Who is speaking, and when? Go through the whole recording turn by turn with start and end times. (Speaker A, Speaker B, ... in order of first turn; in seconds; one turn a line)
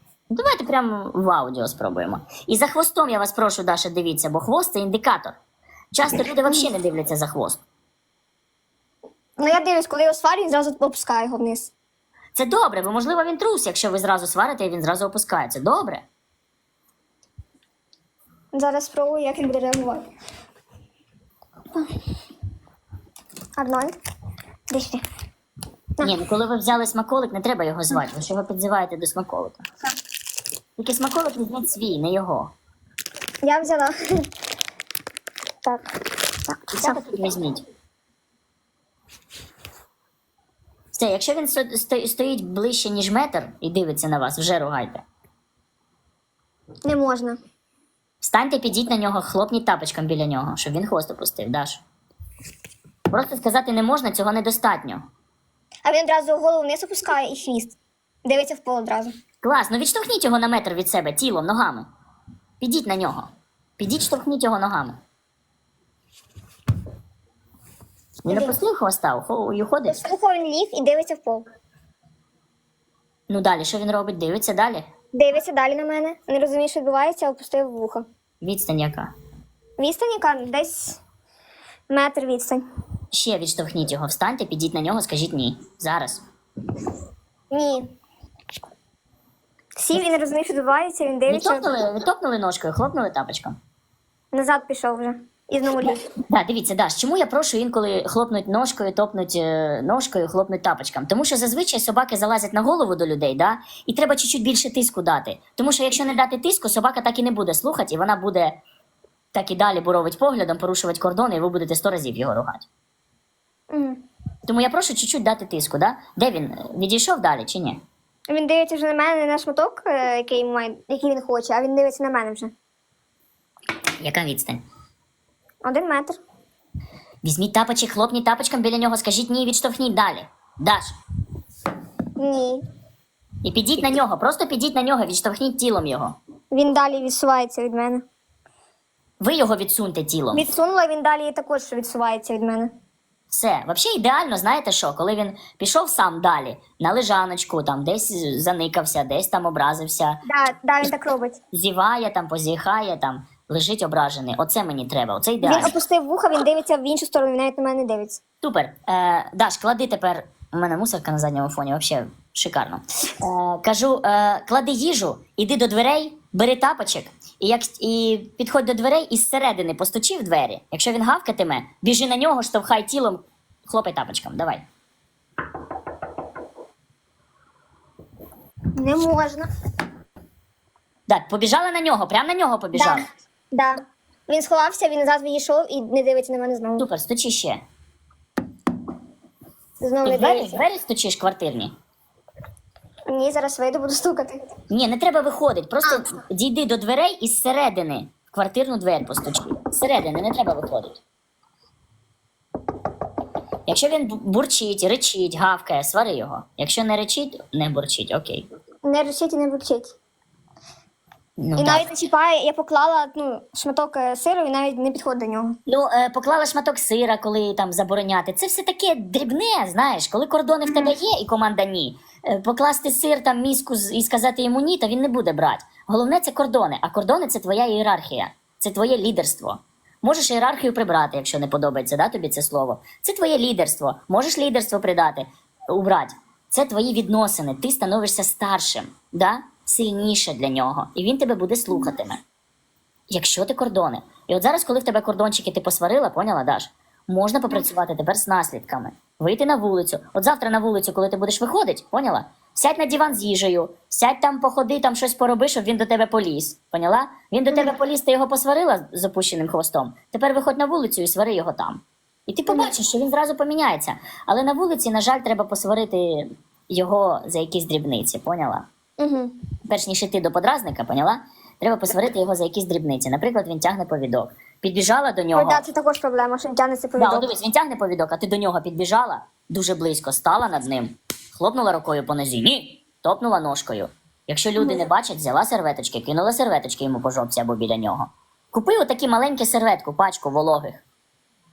Speaker A: 0.3-5.3
Speaker A: 5.9-7.6
Speaker B: 9.4-11.7
Speaker A: 12.3-16.0
Speaker B: 18.5-20.1
Speaker B: 23.6-23.9
Speaker B: 24.7-25.0
Speaker A: 26.0-29.6
Speaker A: 30.8-32.5
Speaker B: 33.4-33.9
Speaker B: 36.5-37.0
Speaker A: 36.7-37.6
Speaker A: 40.9-45.0
Speaker B: 46.9-47.4
Speaker A: 48.2-51.8
Speaker A: 53.1-55.0
Speaker B: 55.9-59.1
Speaker A: 59.4-61.9
Speaker A: 62.6-63.3
Speaker A: 63.8-65.0
Speaker A: 68.2-70.0
Speaker B: 68.3-68.6
Speaker B: 69.9-71.5
Speaker A: 73.3-74.8
Speaker B: 75.1-78.1
Speaker A: 78.4-79.1
Speaker B: 79.8-81.0
Speaker B: 81.9-82.6
Speaker A: 83.1-86.2
Speaker B: 87.5-87.9
Speaker B: 89.8-91.7
Speaker A: 91.3-93.6
Speaker B: 94.3-96.0
Speaker A: 96.3-108.6
Speaker A: 109.3-112.7
Speaker B: 113.7-114.0
Speaker A: 114.5-117.8
Speaker B: 118.3-122.5
Speaker A: 124.0-124.6
Speaker B: 125.6-126.2
Speaker A: 127.2-130.9
Speaker B: 132.2-132.6
Speaker A: 133.4-136.2
Speaker B: 136.5-138.0
Speaker A: 139.2-140.4
Speaker B: 140.3-142.7
Speaker A: 143.3-150.2
Speaker B: 150.3-151.4
Speaker A: 151.5-155.7
Speaker B: 155.4-158.2
Speaker A: 158.4-174.6
Speaker B: 178.8-179.5
Speaker A: 181.1-183.1
Speaker B: 182.8-186.8
Speaker A: 186.8-187.6
Speaker B: 189.8-190.6
Speaker A: 190.1-191.7
Speaker B: 193.1-194.4
Speaker A: 194.7-201.0
Speaker A: 203.7-208.5
Speaker B: 208.8-209.9
Speaker A: 211.4-211.9
Speaker B: 211.6-215.6
Speaker A: 215.7-242.2
Speaker B: 220.7-220.9
Speaker A: 243.1-268.6
Speaker B: 262.5-262.7
Speaker B: 269.0-269.3
Speaker A: 269.7-275.6
Speaker B: 275.4-277.3
Speaker A: 277.0-290.8
Speaker B: 284.6-284.8